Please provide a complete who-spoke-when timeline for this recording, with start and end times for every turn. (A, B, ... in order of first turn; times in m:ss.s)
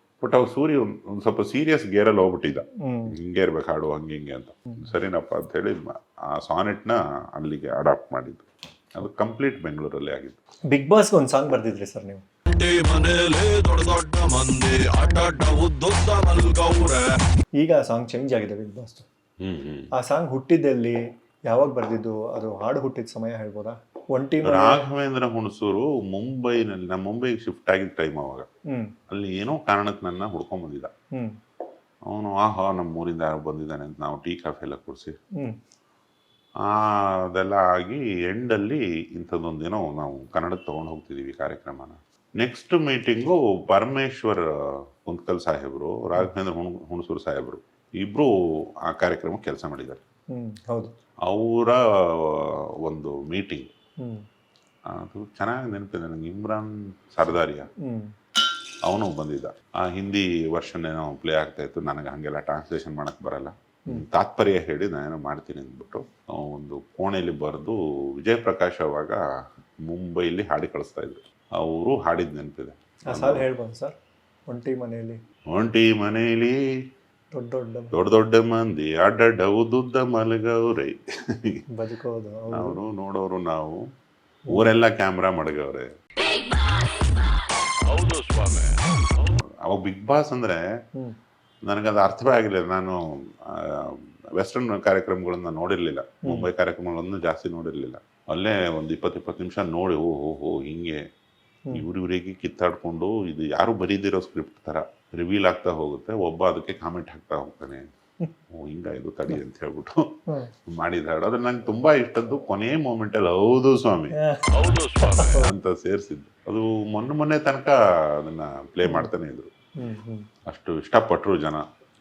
0:00.2-0:10.4 A
0:02.8-0:03.2 B
0:10.7-0:12.2 B
0:12.5-0:17.0 C
0:17.6-0:19.1 B
0:19.4-0:19.9 A
0:19.9-0:24.8 B
0:24.4-0:28.5 A
0:28.7-0:29.0 B
0:29.1-0:30.9 A
0:32.0-0:35.2 A
0:36.6-0:50.0 A
0:50.3-0:50.9 B
0:51.2-0:53.7 A
0:54.9-0:57.7 A
0:57.8-0:58.1 B
0:58.8-1:09.2 A
1:09.8-1:13.4 A
1:13.1-1:13.9 B
1:14.5-1:15.2 B
1:15.5-1:16.6 A
1:17.3-1:18.0 B
1:17.9-1:21.6 A
1:21.7-1:22.8 B
1:22.5-1:23.9 A
1:24.5-1:25.9 A
1:27.8-1:28.7 C
1:29.4-1:30.6 A
1:31.6-1:41.0 A
1:36.2-1:36.5 B
1:41.7-1:47.8 A
1:48.5-1:54.2 A
1:54.1-1:55.5 B
1:54.5-1:55.4 C
1:55.2-1:59.5 A
1:58.8-1:59.1 B
1:59.8-2:00.3 B
2:00.4-2:01.6 A